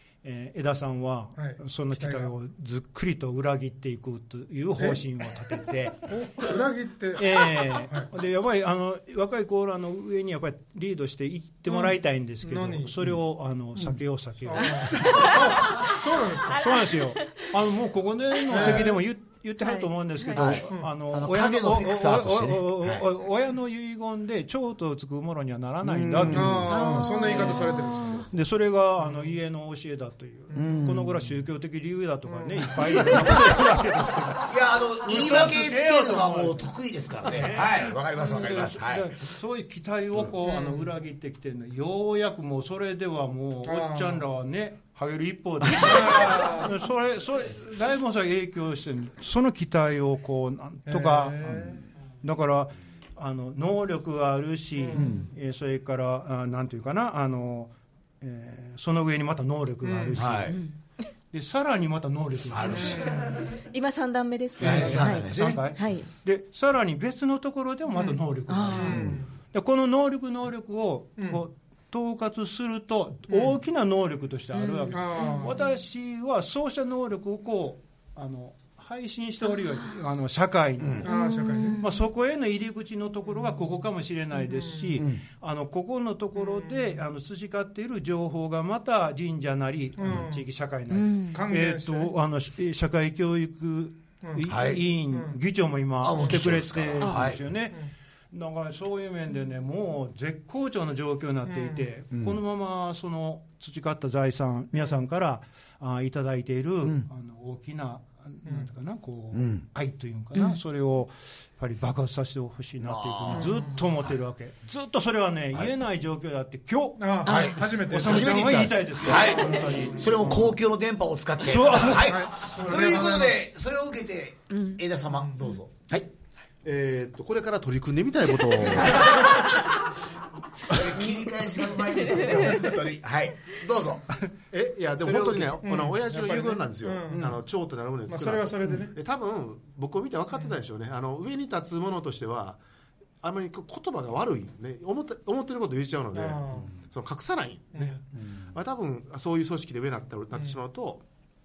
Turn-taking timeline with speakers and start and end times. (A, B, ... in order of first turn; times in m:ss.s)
0:00.2-0:06.3 A
0:01.4-0:02.3 B
0:04.8-0:05.0 B
0:06.1-0:08.1 B
0:07.2-0:15.9 A
0:12.4-0:12.9 B
0:14.4-0:16.8 B
0:14.9-0:16.0 C
0:16.4-0:27.7 A
0:16.5-0:17.5 C
0:18.4-0:19.0 B
0:18.5-0:18.8 C
0:19.6-0:20.6 C
0:20.3-0:23.1 D
0:25.8-0:26.8 D
0:26.3-0:28.3 B
0:26.6-0:28.2 C
0:28.3-0:36.7 A
0:30.5-0:30.8 B
0:30.5-0:31.2 D
0:32.3-0:33.2 B
0:34.4-0:39.3 D
0:37.2-1:00.6 A
0:43.6-0:44.2 B
0:45.8-0:46.7 B
0:50.8-0:51.8 B
0:54.8-0:55.2 B
0:54.9-0:55.3 D
0:59.8-1:00.2 B
1:00.1-1:00.6 D
1:00.5-1:00.8 C
1:01.3-1:03.4 A
1:02.5-1:03.2 D
1:02.7-1:03.4 B
1:03.2-1:06.1 C
1:04.6-1:05.7 D
1:04.6-2:00.6 A
1:08.0-1:09.0 C
1:08.7-1:09.3 B
1:13.3-1:13.6 B
1:14.6-1:15.6 C
1:14.8-1:15.6 B
1:20.8-1:21.1 D
1:21.0-1:21.8 B
1:21.0-1:22.0 C
1:24.7-1:25.0 B
1:25.0-1:25.2 D
1:26.4-1:26.8 B
1:30.0-1:30.4 B
1:30.9-1:31.4 C
1:31.3-1:32.1 B
1:34.4-1:34.8 D
1:35.1-1:35.4 B
1:36.0-1:37.4 D
1:41.5-1:41.8 B
1:46.8-1:47.1 D
1:49.3-1:49.6 D
1:52.8-1:53.6 D
1:53.3-1:53.8 B
1:57.0-1:58.3 B
1:57.2-1:57.6 C
1:57.2-2:06.1 D
1:59.5-1:59.8 B
2:01.4-2:03.3 A
2:02.1-2:03.3 B
2:04.5-2:04.8 C
2:06.6-2:09.4 E
2:08.8-2:09.5 D
2:10.7-2:14.1 D
2:11.6-2:12.8 C
2:14.5-2:22.6 E
2:15.0-2:15.6 D
2:15.6-2:17.3 B
2:17.1-2:17.4 D
2:18.1-2:19.0 B
2:23.2-2:31.0 E
2:26.1-2:26.7 B
2:27.7-2:28.0 B
2:28.2-2:28.5 D